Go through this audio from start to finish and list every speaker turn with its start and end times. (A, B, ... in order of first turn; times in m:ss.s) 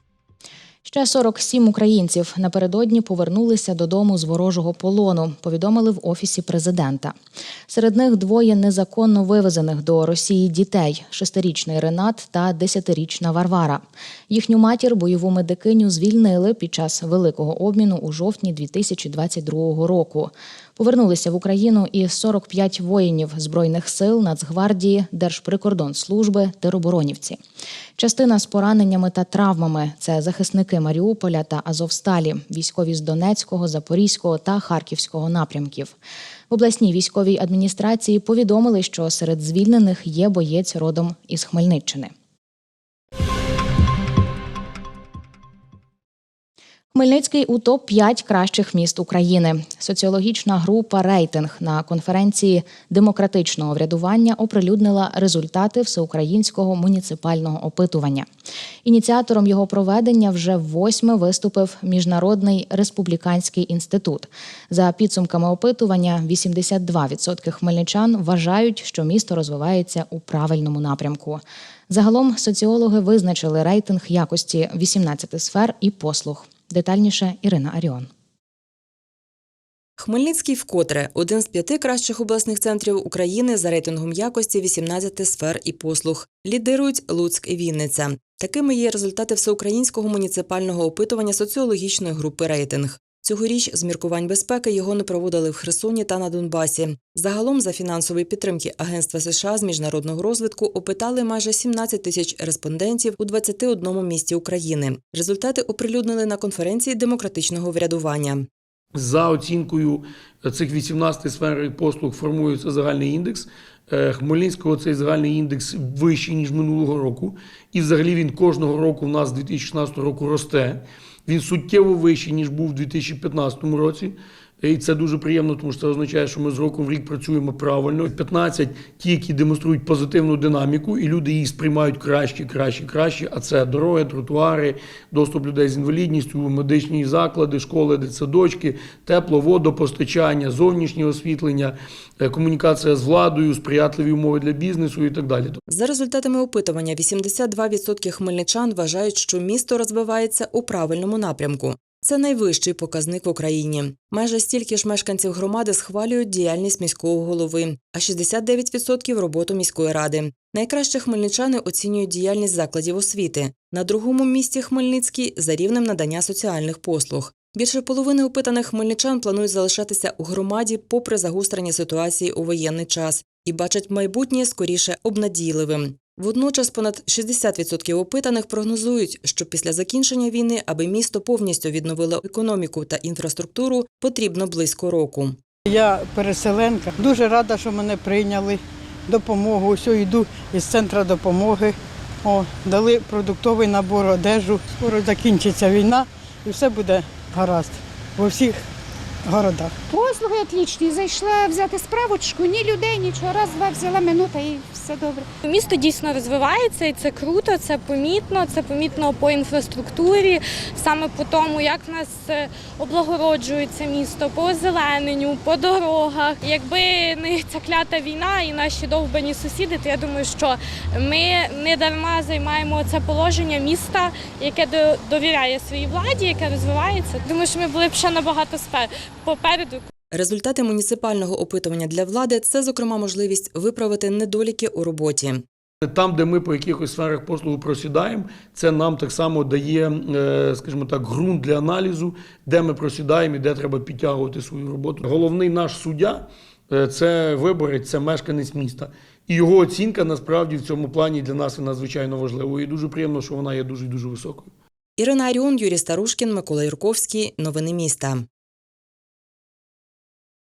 0:00.8-0:07.1 A
0:07.7-0:27.4 A
0:28.0-0:36.0 A
0:36.5-0:42.1 A
0:46.9-0:58.3 A
0:58.8-1:18.1 A
1:20.0-1:48.5 B
1:49.0-2:25.6 C
2:25.7-3:05.4 B
3:05.7-3:18.6 D
3:19.3-3:19.7 D
3:19.9-3:25.3 E
3:25.5-3:49.8 F
3:50.1-3:55.4 B
3:55.8-4:14.5 C
4:15.0-4:18.3 B